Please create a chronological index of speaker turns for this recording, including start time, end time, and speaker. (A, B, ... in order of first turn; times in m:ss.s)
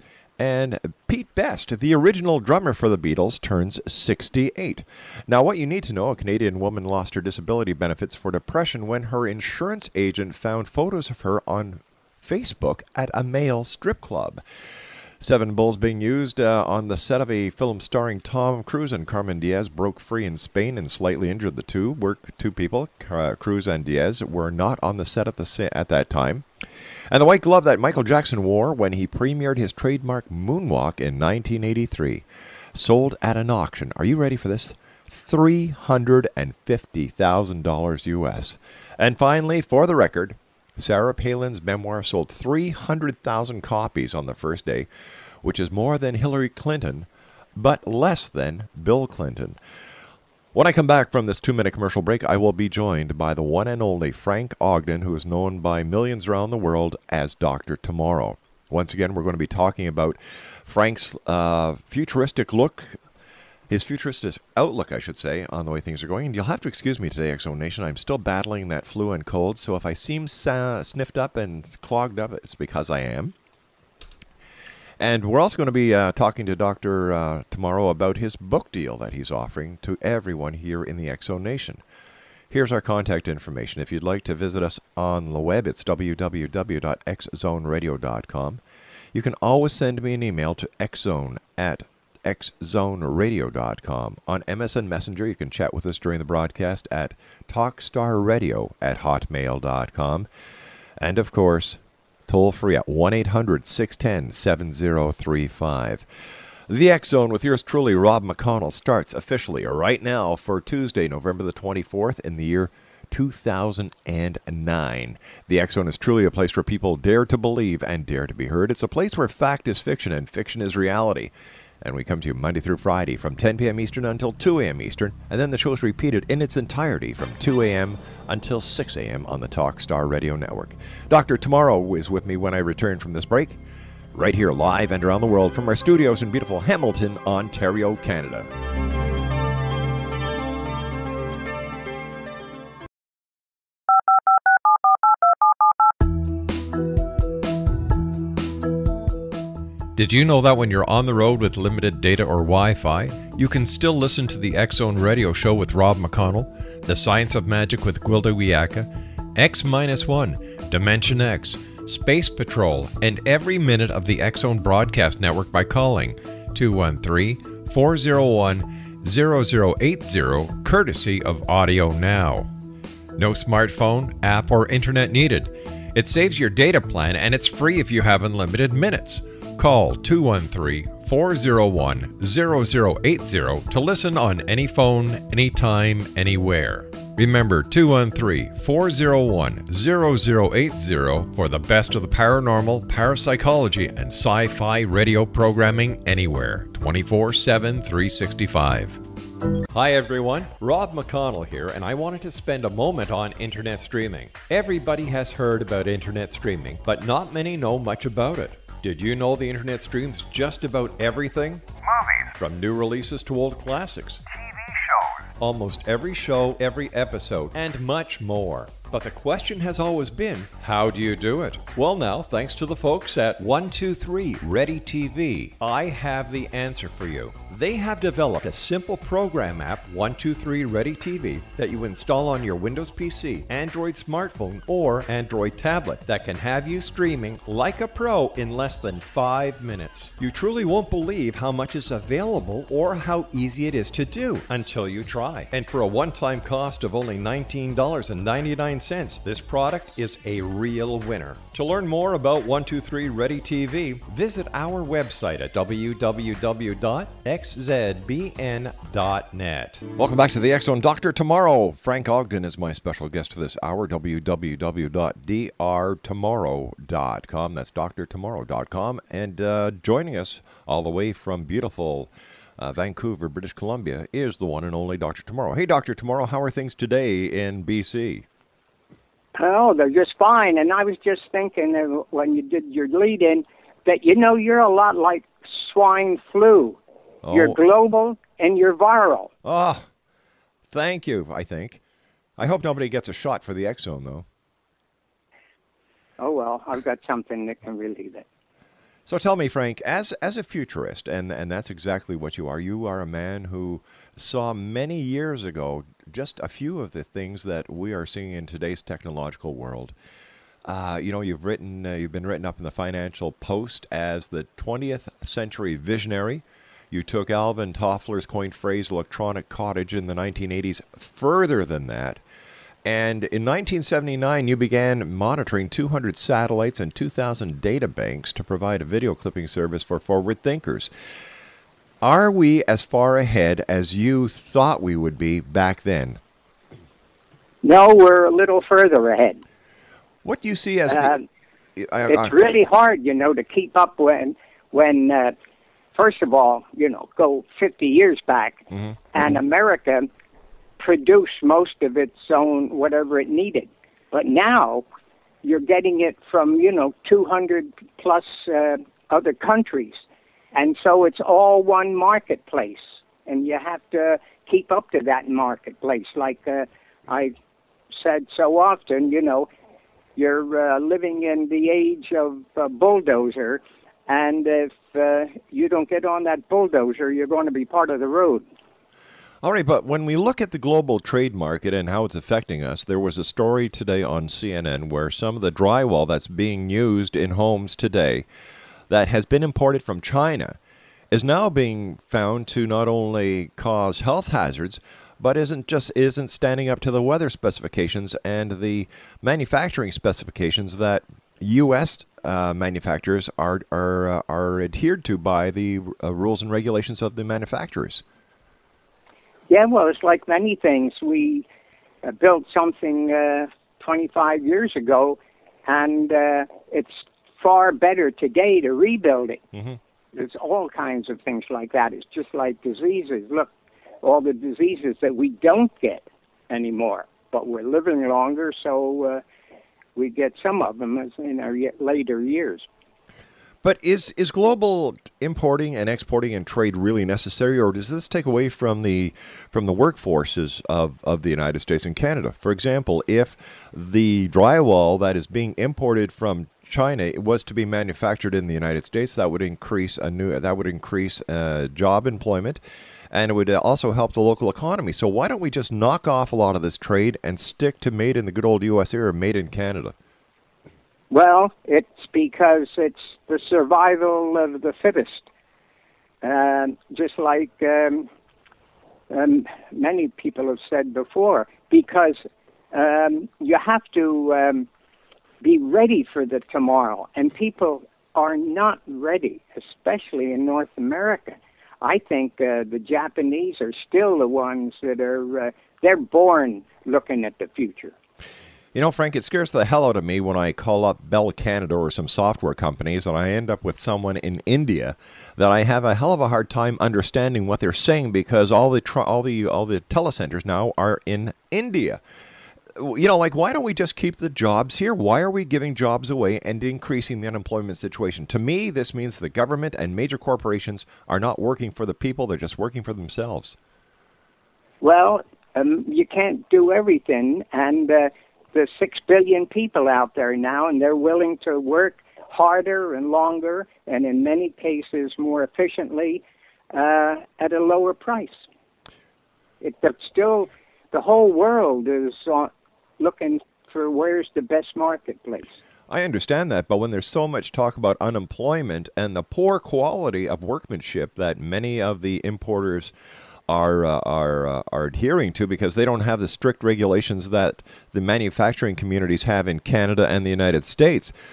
0:00.4-0:14.4 A
0:15.2-0:26.5 A
0:27.1-0:44.9 A
0:45.4-0:49.6 A
0:50.5-1:03.0 A
1:03.7-1:13.4 A
1:15.0-1:21.8 A
1:22.5-1:28.6 A
1:29.1-1:40.3 A
1:41.0-1:46.1 A
1:46.7-2:13.6 A
2:14.1-2:18.5 A
2:30.0-2:52.5 B
2:53.2-3:19.0 B
3:19.7-3:31.6 B
3:32.4-3:34.2 B
3:35.4-4:19.8 B
4:20.0-4:38.3 A
4:39.4-4:46.8 C
4:47.2-4:47.6 A
4:47.3-4:49.3 C
4:49.4-4:49.9 A
4:50.7-4:51.8 A
4:52.4-4:54.3 A
4:56.2-4:58.3 C
4:59.1-5:09.9 A
5:10.6-5:22.2 A
5:22.8-5:30.9 A
5:32.0-5:36.2 A
5:37.6-5:39.4 C
5:40.2-5:41.1 A
5:40.9-5:41.2 C
5:41.8-5:42.4 A
5:42.1-5:45.4 C
5:46.0-5:50.1 C
5:50.8-5:54.8 C
5:55.4-6:00.0 C
6:00.5-6:07.3 C
6:07.9-6:09.5 C
6:10.2-6:18.4 C
6:19.4-6:28.3 A
6:28.9-6:30.6 A
6:31.1-6:48.0 A
6:49.5-6:51.5 C
6:52.0-6:59.4 C
7:00.1-7:03.5 C
7:04.0-7:09.2 C
7:10.0-7:12.7 C
7:13.6-7:40.0 A
7:41.1-7:45.3 C
7:46.2-7:48.1 C
7:49.1-7:52.2 C
7:52.7-7:54.7 C
7:55.4-8:08.0 C
8:08.7-8:22.0 A
8:22.8-8:33.6 A
8:34.8-8:46.2 C
8:46.7-8:48.4 C
8:49.6-8:55.5 C
8:55.9-9:02.9 A
9:03.5-9:11.1 A